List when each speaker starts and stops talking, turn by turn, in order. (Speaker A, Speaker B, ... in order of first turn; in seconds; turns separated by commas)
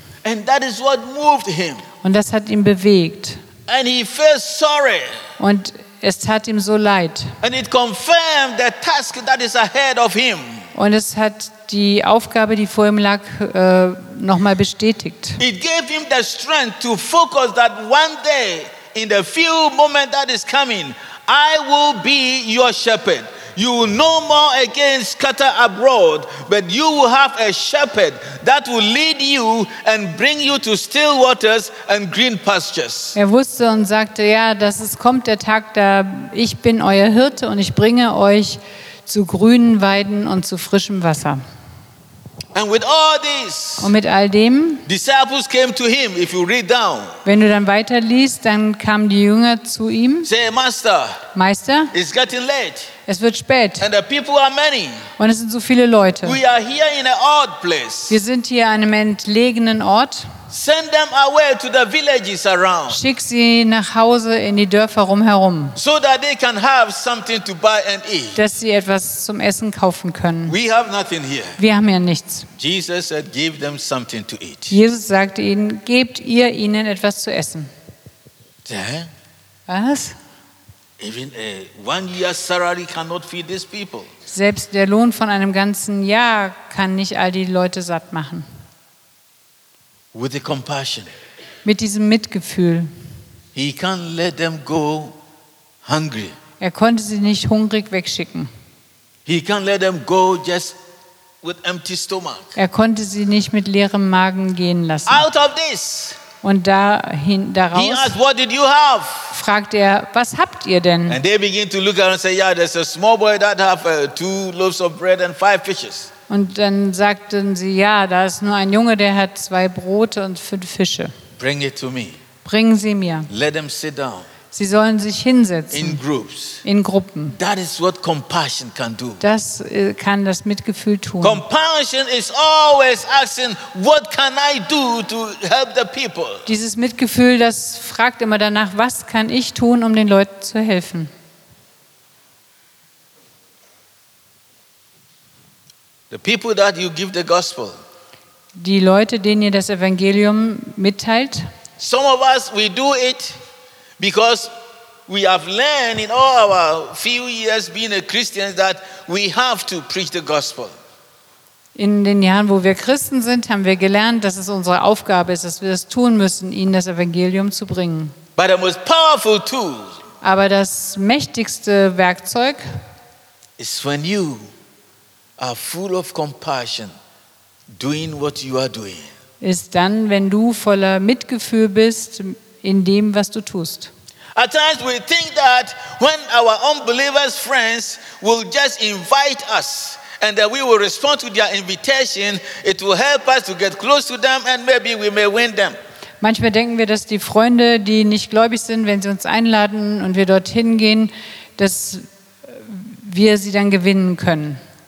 Speaker A: 0.2-1.8, Speaker B: 2.0-3.4, Speaker A: 3.7-5.2, Speaker B: 5.4-7.4, Speaker A: 7.4-10.7, Speaker B: 10.7-15.4, Speaker A: 15.4-33.1, Speaker B: 33.1-41.4, Speaker A: 42.5-43.9, Speaker B: 43.8-44.8, Speaker A: 44.9-47.2, Speaker B: 47.2-50.3, Speaker A: 50.2-51.2, Speaker B: 51.3-51.9, Speaker A: 51.9-52.9, Speaker B: 53.1-53.9, Speaker A: 53.8-55.1, Speaker B: 55.2-56.4, Speaker A: 56.2-58.2, Speaker B: 58.1-60.3, Speaker A: 60.5-63.0, Speaker B: 62.9-65.8, Speaker A: 65.8-68.4, Speaker B: 68.3-70.5, Speaker A: 70.5-71.6, Speaker B: 71.6-72.5, Speaker A: 72.5-74.8, Speaker B: 74.7-77.7, Speaker A: 78.7-79.1, Speaker B: 79.7-80.2, Speaker A: 81.0-84.1, Speaker B: 84.3-88.5, Speaker A: 90.1-91.1, Speaker B: 91.6-92.9, Speaker A: 93.5-95.2, Speaker A: 95.8-96.3, Speaker B: 96.6-98.5, Speaker A: 99.2-100.8, Speaker A: 101.4-102.5, Speaker B: 102.5-105.2, Speaker A: 105.0-106.2, Speaker B: 106.4-108.2, Speaker A: 107.7-109.3, Speaker B: 109.3-111.2, Speaker A: 111.1-116.1, Speaker B: 116.3-121.1, Speaker A: 121.4-122.2, Speaker B: 122.4-123.3, Speaker A: 123.3-124.3, Speaker B: 124.5-126.0, Speaker A: 125.7-126.6, Speaker B: 126.6-127.4, Speaker A: 127.3-129.2, Speaker B: 129.2-131.4, Speaker A: 131.2-136.4, Speaker B: 136.4-141.1, Speaker A: 146.1-147.8, Speaker B: 148.6-151.5, Speaker A: 151.8-153.3, Speaker A: 154.0-154.5, Speaker A: 155.1-160.7, Speaker B: 161.8-168.1, Speaker A: 168.3-170.0, Speaker B: 170.2-172.6, Speaker A: 173.6-174.5, Speaker A: 175.4-176.9, Speaker A: 177.7-179.1, Speaker B: 179.4-183.9, Speaker A: 184.3-195.8, Speaker B: 196.2-204.6